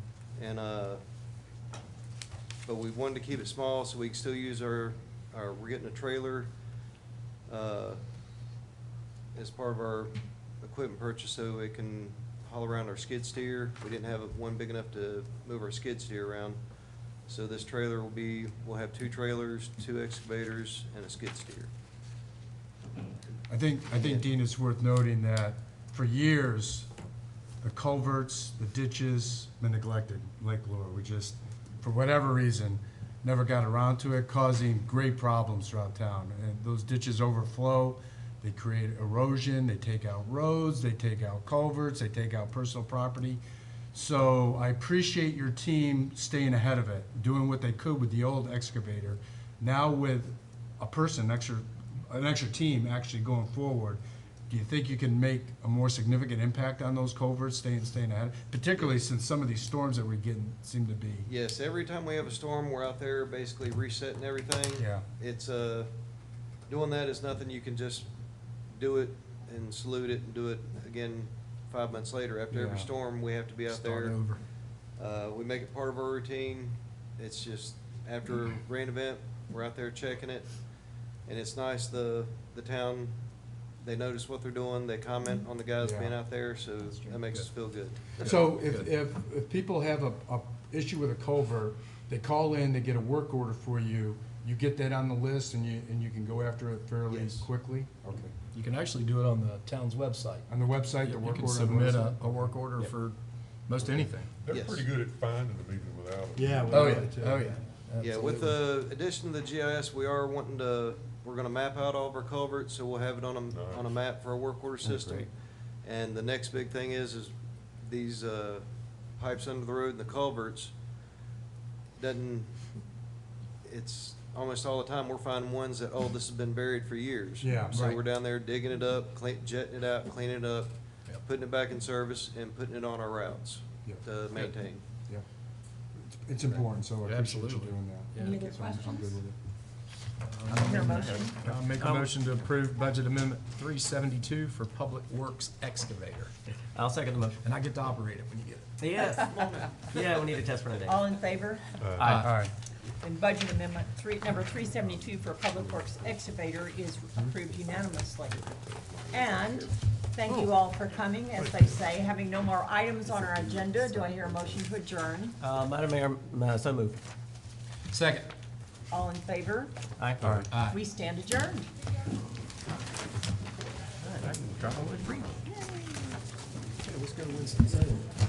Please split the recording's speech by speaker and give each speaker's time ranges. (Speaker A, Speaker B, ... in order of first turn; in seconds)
Speaker A: 0.4-1.0, 2.7-6.5, 7.5-8.0, 9.3-16.6, 17.2-21.7, 24.0-24.2, 61.3-65.9, 66.7-68.1, 68.8-74.2, 75.0-80.5, 81.3-83.2, 83.8-88.5, 97.1-97.5, 104.5-104.9, 108.0-115.3, 115.8-118.7, 119.2-120.7, 122.0-122.6, 123.6-130.7, 131.2-134.8, 149.1-150.0, 158.7-159.8
Speaker B: 23.5-26.9, 27.6-43.4, 43.9-61.3, 64.8-65.0, 72.5-72.9, 85.8-86.2, 88.2-98.3, 100.5-102.9, 103.7-104.1, 106.7-107.6, 127.4-128.0, 136.0-139.3, 140.6-142.4, 152.1-152.5, 170.2-170.5
Speaker C: 73.7-74.4, 88.2-88.9, 98.5-100.5, 101.0-103.2, 103.7-104.3, 106.4-108.5, 137.1-138.3, 140.3-146.3, 147.4-148.8, 152.0-152.4, 167.9-168.3, 170.5-170.8, 176.8-178.1
Speaker D: 104.4-107.0, 113.5-114.0, 151.8-152.2, 160.3-160.6, 161.3-161.8, 170.2-170.5
Speaker E: 114.8-115.3, 140.5-142.1, 146.7-147.4, 148.8-149.3, 149.8-151.0, 152.0-152.4, 165.4-167.0, 170.0-170.3, 174.0-175.3
Speaker F: 138.2-139.2, 140.6-141.4, 150.8-151.8, 153.0-158.4, 159.1-165.4, 168.9-169.8, 170.7-171.7, 175.5-176.2